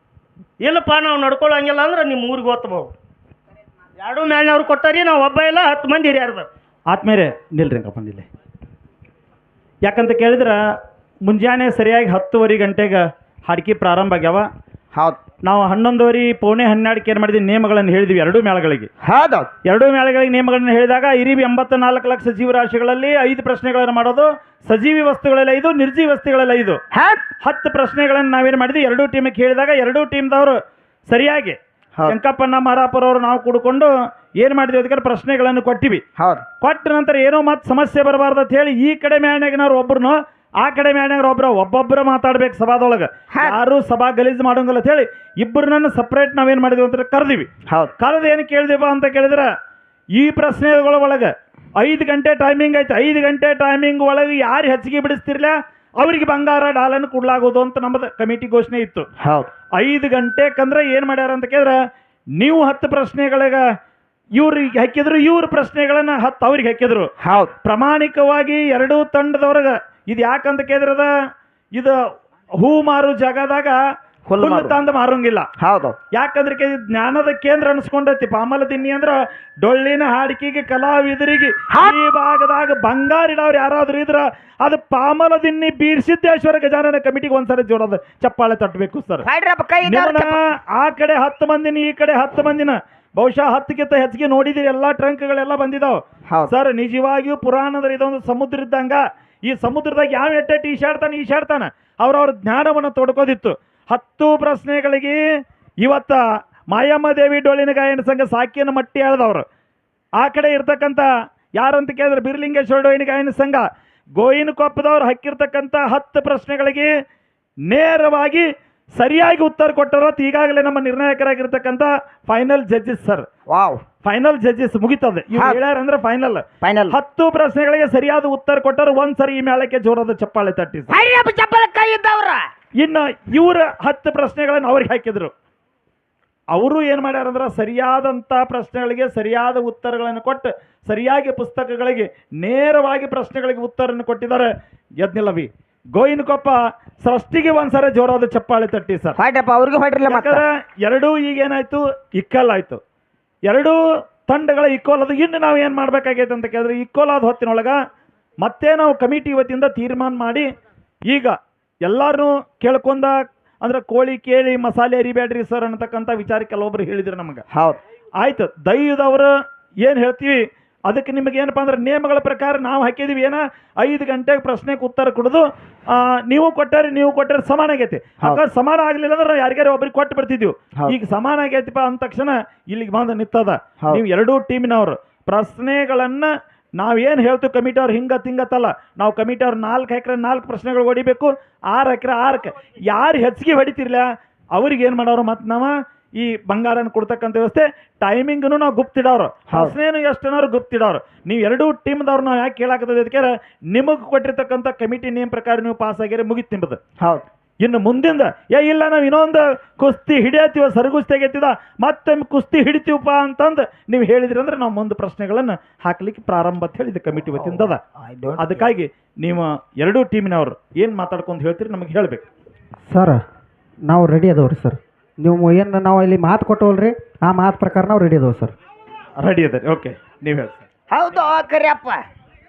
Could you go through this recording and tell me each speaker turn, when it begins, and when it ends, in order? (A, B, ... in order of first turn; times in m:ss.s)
0:00.6-0:02.9 A
0:04.0-0:06.5 A
0:06.9-0:08.3 B
0:09.8-0:10.6 B
0:11.2-0:14.5 B
0:14.9-0:15.2 C
0:15.4-0:18.9 B
0:19.0-0:19.5 C
0:19.6-0:26.8 B
0:26.9-0:27.2 C
0:27.4-0:36.0 B
0:36.2-0:36.4 C
0:36.6-0:47.5 B
0:43.3-0:43.6 C
0:47.7-0:47.9 C
0:48.0-0:49.5 B
0:50.2-0:59.1 B
0:59.2-0:59.5 C
0:59.7-1:01.8 B
1:02.4-1:03.6 B
1:04.4-1:11.1 B
1:07.2-1:07.6 C
1:12.6-1:13.8 B
1:14.3-1:14.8 C
1:14.4-1:15.5 B
1:15.6-1:16.0 C
1:16.1-1:29.3 B
1:21.7-1:22.0 C
1:29.2-1:30.4 C
1:29.9-1:45.2 B
1:36.3-1:36.5 C
1:45.8-1:49.5 B
1:50.2-1:56.9 B
1:57.7-2:03.3 B
2:03.5-2:03.8 C
2:04.0-2:10.9 B
2:05.3-2:05.6 C
2:06.6-2:07.0 C
2:10.9-2:12.5 C
2:12.8-2:15.3 B
2:16.5-2:29.2 B
2:29.2-2:30.4 C
2:30.1-2:32.8 B
2:33.5-2:37.8 B
2:38.4-2:40.5 B
2:41.1-2:47.4 B
2:47.5-2:47.8 C
2:48.2-3:26.8 B
3:19.5-3:19.8 C
3:27.0-3:27.2 C
3:27.6-3:37.8 B
3:37.3-3:38.7 C
3:38.4-3:42.2 B
3:42.9-3:43.2 D
3:43.9-3:48.5 D
3:49.2-3:50.7 B
3:50.9-3:52.0 C